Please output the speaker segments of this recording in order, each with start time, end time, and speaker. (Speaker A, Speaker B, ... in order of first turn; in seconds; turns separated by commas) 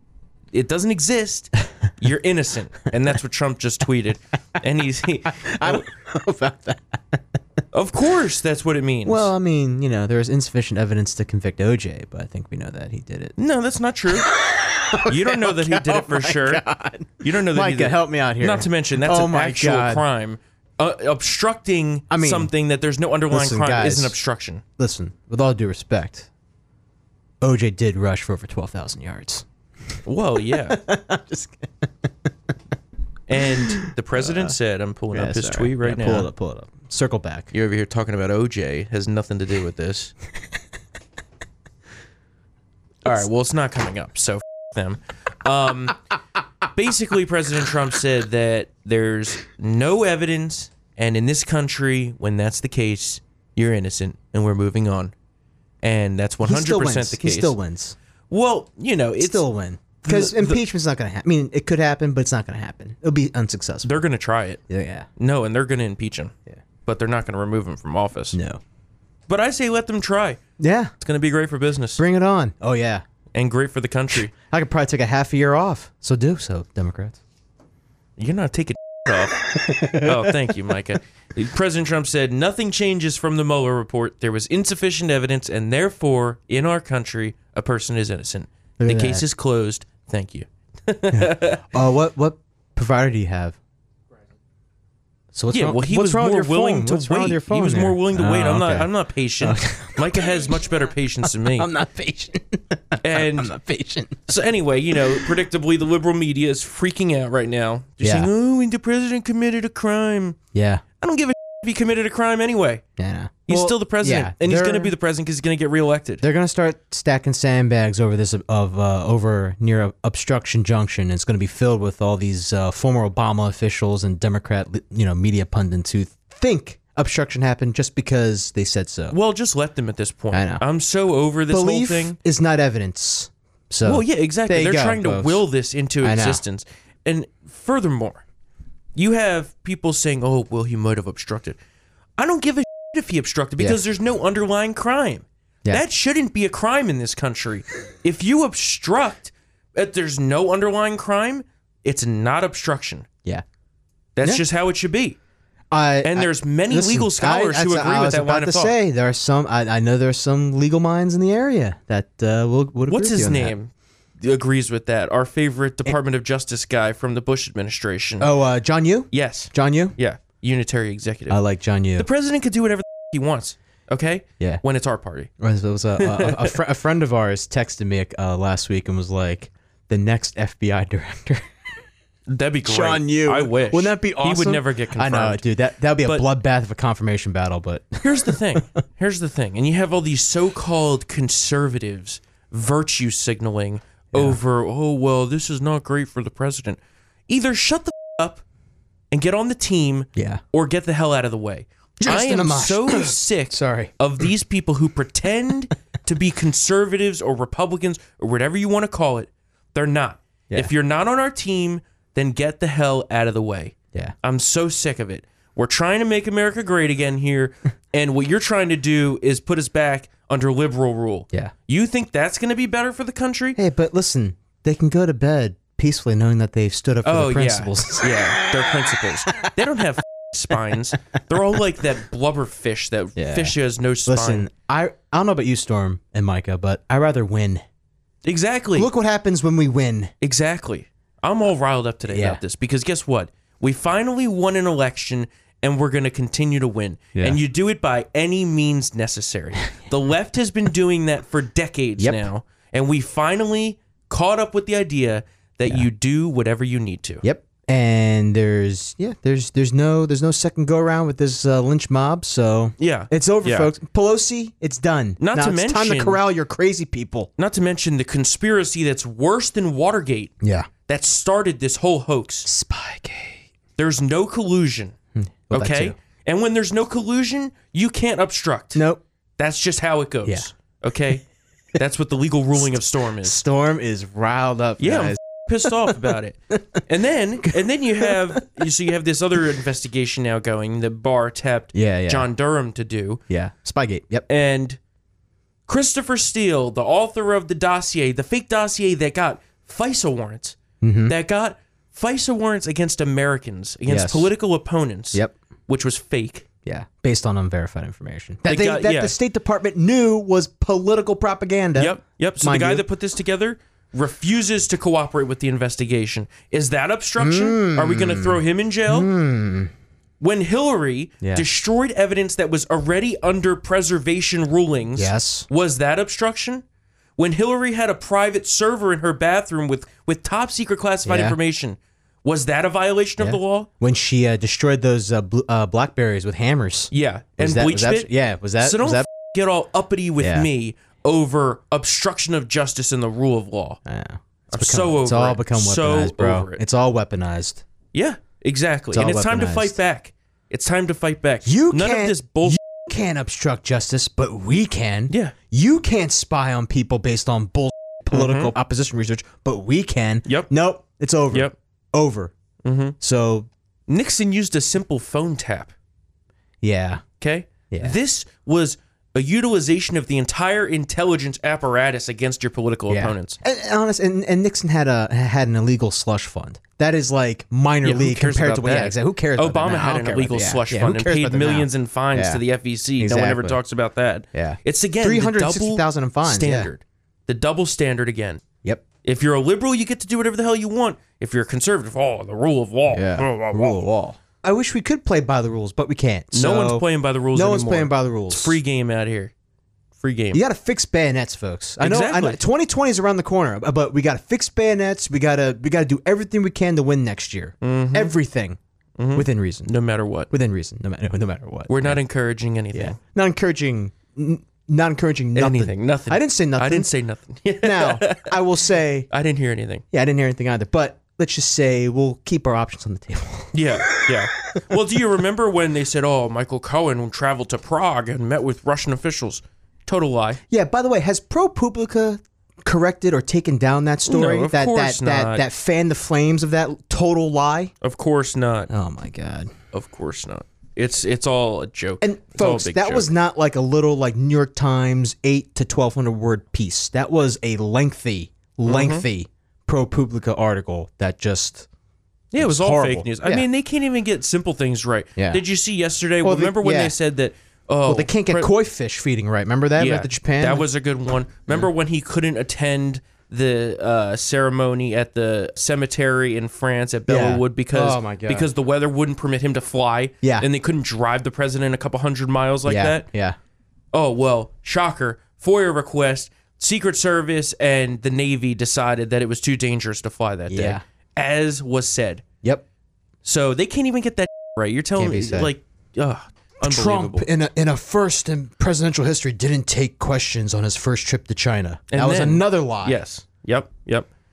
Speaker A: 0.5-5.8, Speaker B: 5.4-7.2, Speaker A: 7.7-9.3, Speaker B: 9.1-13.3, Speaker A: 13.4-14.3, Speaker B: 14.3-20.0, Speaker A: 15.1-16.6, Speaker A: 17.2-24.6, Speaker B: 22.1-22.5, Speaker B: 23.3-24.1, Speaker B: 24.8-26.3, Speaker B: 27.4-29.4, Speaker A: 30.0-30.8, Speaker B: 30.5-32.3, Speaker A: 33.3-36.3, Speaker B: 33.4-34.5, Speaker B: 35.1-37.5, Speaker A: 37.5-40.1, Speaker A: 43.0-46.0, Speaker A: 46.7-55.1, Speaker A: 55.8-57.5, Speaker B: 56.4-58.0, Speaker A: 58.3-59.5, Speaker B: 59.2-64.0, Speaker A: 60.0-60.6, Speaker A: 63.8-64.6, Speaker B: 64.7-65.1, Speaker A: 65.2-66.3, Speaker A: 66.8-68.4, Speaker B: 68.3-68.6, Speaker A: 69.3-70.4, Speaker B: 70.6-70.9, Speaker A: 71.0-72.0, Speaker B: 72.0-73.0, Speaker A: 73.3-74.3, Speaker B: 74.3-77.2, Speaker A: 78.2-91.7, Speaker B: 79.6-80.3, Speaker B: 88.8-89.2, Speaker B: 91.1-93.6, Speaker B: 95.3-98.9, Speaker A: 95.5-101.7, Speaker B: 99.4-100.5, Speaker B: 101.2-104.2, Speaker A: 103.0-103.5, Speaker A: 104.3-110.4, Speaker B: 104.9-105.3, Speaker B: 108.0-108.3, Speaker B: 110.5-110.8, Speaker A: 111.0-112.8, Speaker B: 113.0-114.9, Speaker A: 113.5-116.2, Speaker B: 116.2-129.2, Speaker A: 129.1-132.2, Speaker B: 130.3-130.6, Speaker B: 131.5-135.4, Speaker A: 133.8-138.2, Speaker B: 136.0-136.4, Speaker A: 138.9-141.6, Speaker A: 142.2-153.1, Speaker A: 154.2-155.2, Speaker B: 155.7-163.5, Speaker A: 156.0-158.7, Speaker A: 162.9-168.3, Speaker B: 168.2-169.9, Speaker A: 169.1-171.4, Speaker B: 171.3-172.1, Speaker A: 172.0-175.3, Speaker B: 175.4-181.5, Speaker A: 176.0-176.6, Speaker A: 182.3-185.5, Speaker B: 182.6-188.6, Speaker A: 188.0-198.4, Speaker B: 194.1-194.4, Speaker A: 199.1-223.6, Speaker B: 200.2-200.4, Speaker B: 202.0-203.9, Speaker B: 223.6-229.5, Speaker A: 227.0-234.5, Speaker B: 233.2-237.6, Speaker A: 238.2-238.9, Speaker B: 238.8-240.1, Speaker A: 240.2-257.2, Speaker B: 242.1-242.4, Speaker B: 247.1-247.4, Speaker B: 252.0-252.2, Speaker B: 257.2-267.3, Speaker A: 262.8-263.7, Speaker A: 265.2-266.2, Speaker A: 267.4-272.5, Speaker B: 270.4-270.7, Speaker B: 272.4-273.5, Speaker A: 273.8-274.9, Speaker B: 275.1-275.9, Speaker A: 275.5-278.8, Speaker B: 278.7-279.0, Speaker A: 279.4-283.4, Speaker B: 282.7-286.6, Speaker A: 284.8-293.2, Speaker B: 287.4-288.4, Speaker B: 291.7-292.3, Speaker B: 293.3-294.2, Speaker A: 294.3-294.8, Speaker A: 295.7-306.4, Speaker B: 300.8-301.1, Speaker B: 303.9-304.3, Speaker B: 306.6-312.8, Speaker A: 308.4-309.1, Speaker A: 311.8-319.1, Speaker B: 317.2-319.7, Speaker A: 320.2-326.6, Speaker B: 324.9-325.5, Speaker A: 327.2-333.7, Speaker B: 331.1-331.4, Speaker B: 333.2-339.1, Speaker A: 336.9-343.8, Speaker B: 340.2-340.5, Speaker B: 343.9-347.6, Speaker A: 344.5-346.6, Speaker A: 347.9-352.6, Speaker B: 348.9-349.8, Speaker B: 351.4-362.3, Speaker A: 355.1-355.3, Speaker A: 358.1-358.5, Speaker A: 362.6-362.9, Speaker B: 363.0-363.5, Speaker A: 363.9-365.7, Speaker B: 366.6-367.0, Speaker A: 367.2-373.4, Speaker B: 367.7-367.9, Speaker B: 372.9-382.4, Speaker A: 377.8-388.4, Speaker B: 383.0-383.6, Speaker B: 384.3-386.7, Speaker A: 389.0-393.8, Speaker B: 392.9-398.6, Speaker A: 396.3-399.3, Speaker A: 400.0-400.4, Speaker B: 400.3-408.6, Speaker A: 401.8-402.4, Speaker A: 407.6-408.1, Speaker A: 409.0-410.3, Speaker B: 409.1-409.7, Speaker B: 410.3-412.0, Speaker A: 411.7-413.0, Speaker B: 412.7-416.9, Speaker A: 415.3-418.4, Speaker B: 417.6-419.1, Speaker A: 419.1-419.8, Speaker B: 419.9-424.8, Speaker A: 423.5-430.4, Speaker B: 430.5-437.7, Speaker A: 434.1-435.4, Speaker A: 437.8-438.7, Speaker B: 438.7-439.5, Speaker A: 439.7-443.1, Speaker B: 442.0-451.7, Speaker A: 448.6-449.0, Speaker A: 452.3-458.5, Speaker B: 452.4-453.5, Speaker B: 455.1-455.4, Speaker B: 456.2-456.9, Speaker B: 457.9-460.7, Speaker A: 459.8-473.1, Speaker B: 467.1-468.5, Speaker B: 470.2-470.5, Speaker B: 472.6-473.4, Speaker A: 473.9-482.2, Speaker B: 480.5-480.8, Speaker A: 483.2-487.3, Speaker B: 485.0-485.5, Speaker B: 486.6-493.0, Speaker A: 491.9-494.1